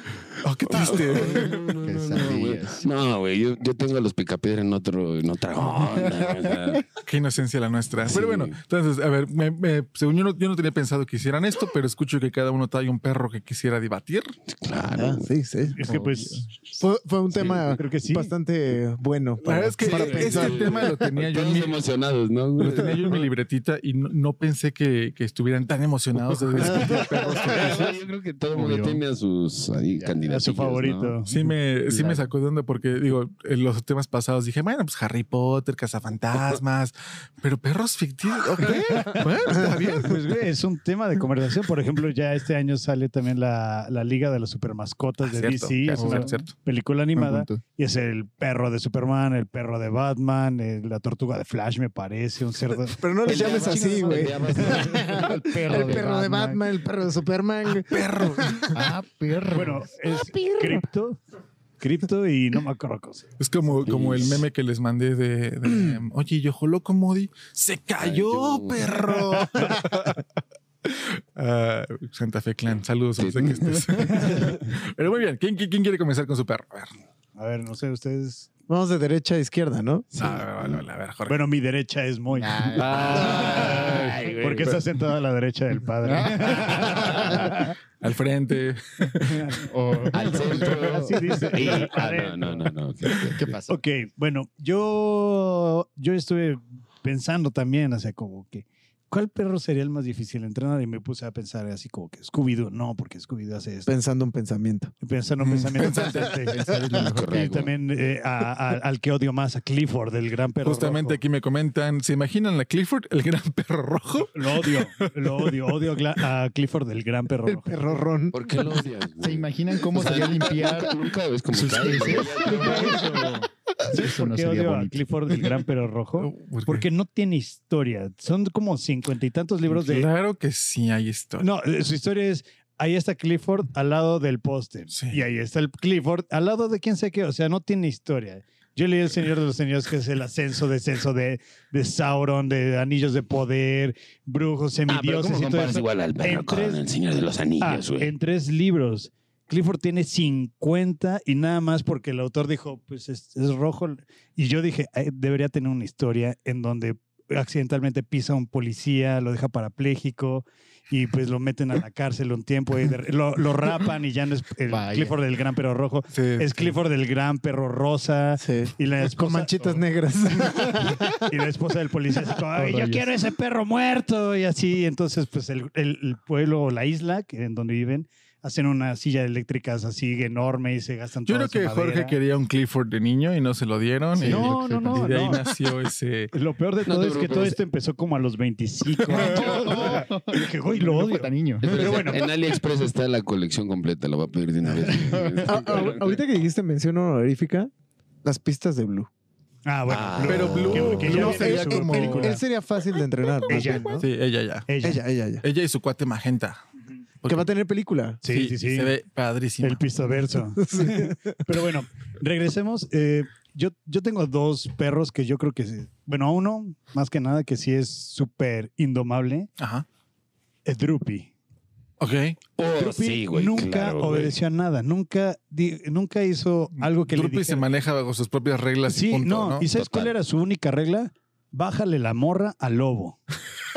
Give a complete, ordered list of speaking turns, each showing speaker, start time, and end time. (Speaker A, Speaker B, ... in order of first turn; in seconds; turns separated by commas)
Speaker A: 0.4-1.7, Speaker B: 0.7-6.8, Speaker C: 1.8-2.9, Speaker C: 6.0-6.8, Speaker A: 7.0-14.3, Speaker B: 8.1-8.6, Speaker B: 14.6-15.3, Speaker D: 14.8-15.9, Speaker E: 15.8-16.6, Speaker C: 15.9-16.5, Speaker D: 16.8-21.0, Speaker E: 17.7-18.3, Speaker A: 19.4-21.8, Speaker B: 19.9-23.3, Speaker A: 22.6-28.0, Speaker B: 26.7-31.2, Speaker C: 28.5-29.0, Speaker E: 30.3-31.4, Speaker A: 31.3-40.3, Speaker B: 31.9-32.2, Speaker E: 39.0-55.0, Speaker A: 45.2-46.5, Speaker C: 46.0-46.5, Speaker C: 47.1-47.6, Speaker D: 53.0-58.7, Speaker B: 53.2-56.0, Speaker C: 55.2-56.5, Speaker E: 55.8-56.6, Speaker A: 57.8-58.8, Speaker C: 58.7-59.9, Speaker E: 59.5-61.2, Speaker D: 60.4-60.8, Speaker E: 61.8-63.3, Speaker A: 63.4-70.2, Speaker B: 63.8-64.5, Speaker B: 68.0-69.0, Speaker A: 70.8-76.9, Speaker B: 73.2-73.8, Speaker E: 74.1-74.6, Speaker E: 77.3-78.5, Speaker D: 78.7-80.1, Speaker A: 80.2-81.4, Speaker B: 80.2-80.8, Speaker E: 81.3-87.8, Speaker C: 82.3-84.0, Speaker B: 82.8-84.8, Speaker A: 82.8-83.9, Speaker C: 86.0-87.6, Speaker A: 88.0-89.5, Speaker E: 89.2-92.7, Speaker C: 89.6-91.3, Speaker B: 90.1-93.6, Speaker C: 93.3-93.8, Speaker E: 93.7-103.9, Speaker D: 103.9-104.9, Speaker E: 105.0-106.6, Speaker A: 105.4-106.4, Speaker C: 106.2-107.7, Speaker B: 107.0-107.7, Speaker E: 107.4-111.2, Speaker A: 110.6-115.6, Speaker E: 114.3-118.0, Speaker D: 117.5-118.8, Speaker B: 118.3-123.3, Speaker C: 119.2-121.0, Speaker C: 121.5-123.3, Speaker E: 122.2-130.1, Speaker C: 123.9-125.4, Speaker A: 126.2-126.9, Speaker A: 129.7-131.5, Speaker E: 131.4-146.8, Speaker A: 134.9-135.2, Speaker B: 144.9-148.1, Speaker E: 147.6-169.6, Speaker C: 164.7-165.2, Speaker A: 166.1-166.8, Speaker D: 168.4-171.3, Speaker E: 171.3-182.2, Speaker C: 172.6-173.1, Speaker A: 181.3-186.3, Speaker C: 184.2-185.4, Speaker E: 184.2-185.4, Speaker E: 186.3-192.3, Speaker B: 186.8-187.6, Speaker C: 189.1-192.0, Speaker B: 191.6-196.2, Speaker D: 195.4-197.7, Speaker D: 198.2-199.1, Speaker E: 199.7-202.4, Speaker B: 199.9-201.3, Speaker A: 200.2-202.4, Speaker D: 201.1-204.0, Speaker E: 203.5-204.1, Speaker A: 203.5-204.7, Speaker E: 204.7-205.0, Speaker D: 204.8-205.4, Speaker A: 205.4-206.6, Speaker A: 207.2-207.5, Speaker D: 207.3-208.2, Speaker E: 208.2-208.9, Speaker A: 208.3-209.8, Speaker E: 209.6-219.5, Speaker D: 210.6-211.4, Speaker A: 219.6-219.8, Speaker E: 220.7-221.3, Speaker A: 222.0-222.4, Speaker B: 222.6-224.4, Speaker E: 222.7-227.7, Speaker A: 226.7-229.7, Speaker E: 228.9-233.2, Speaker B: 229.8-230.1